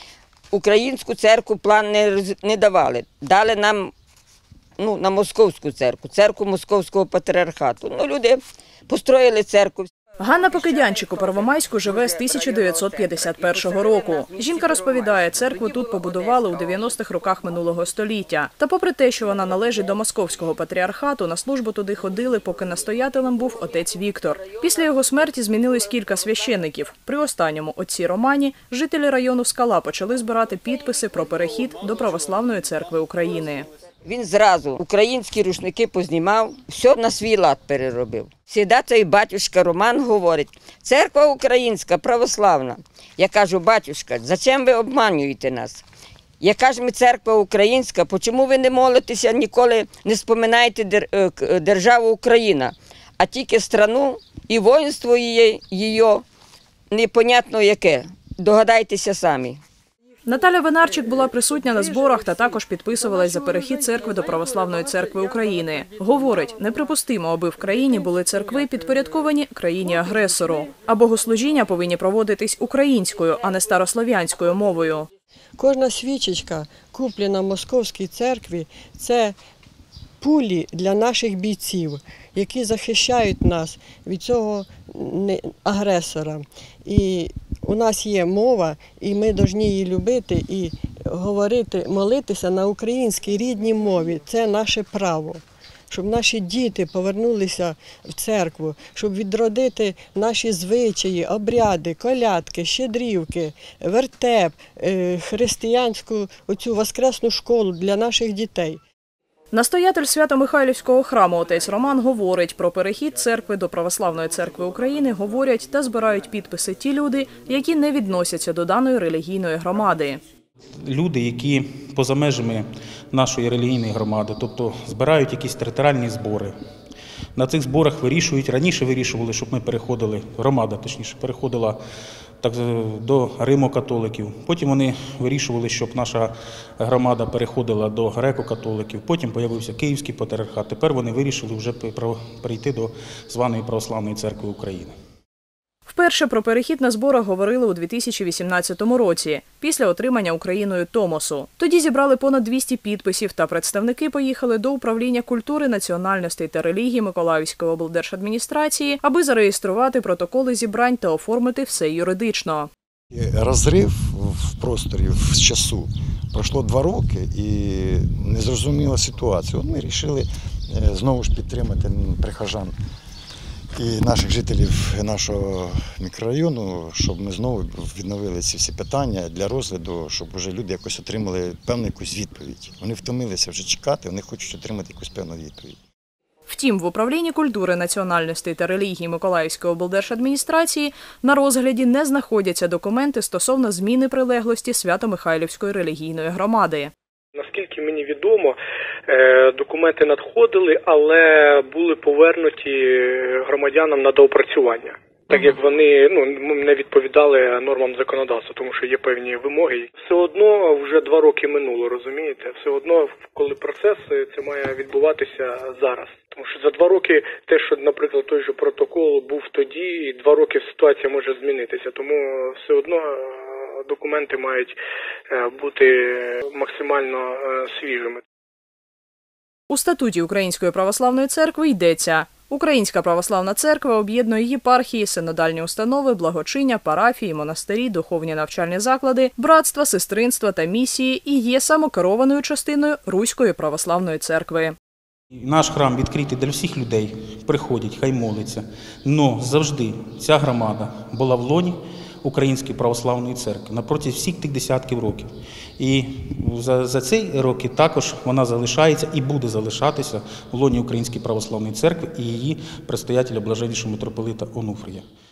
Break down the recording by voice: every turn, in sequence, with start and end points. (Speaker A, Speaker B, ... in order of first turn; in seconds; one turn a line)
Speaker A: 0.5-3.9
Speaker A: 4.8-9.9
Speaker B: 10.2-33.6
Speaker A: 34.0-45.8
Speaker A: 46.4-56.2
Speaker A: 56.9-59.6
Speaker B: 60.2-75.1
Speaker C: 75.6-79.3
Speaker C: 80.2-108.8
Speaker B: 109.5-120.2
Speaker D: 120.8-126.5
Speaker D: 127.3-131.8
Speaker D: 132.4-144.9
Speaker B: 145.8-162.7
Speaker E: 163.1-172.7
Speaker E: 173.7-185.8
Speaker B: 186.5-196.9
Speaker F: 197.3-198.6
Speaker F: 199.1-224.7
Speaker F: 225.3-228.2
Speaker B: 229.7-244.8
Speaker D: 245.3-265.0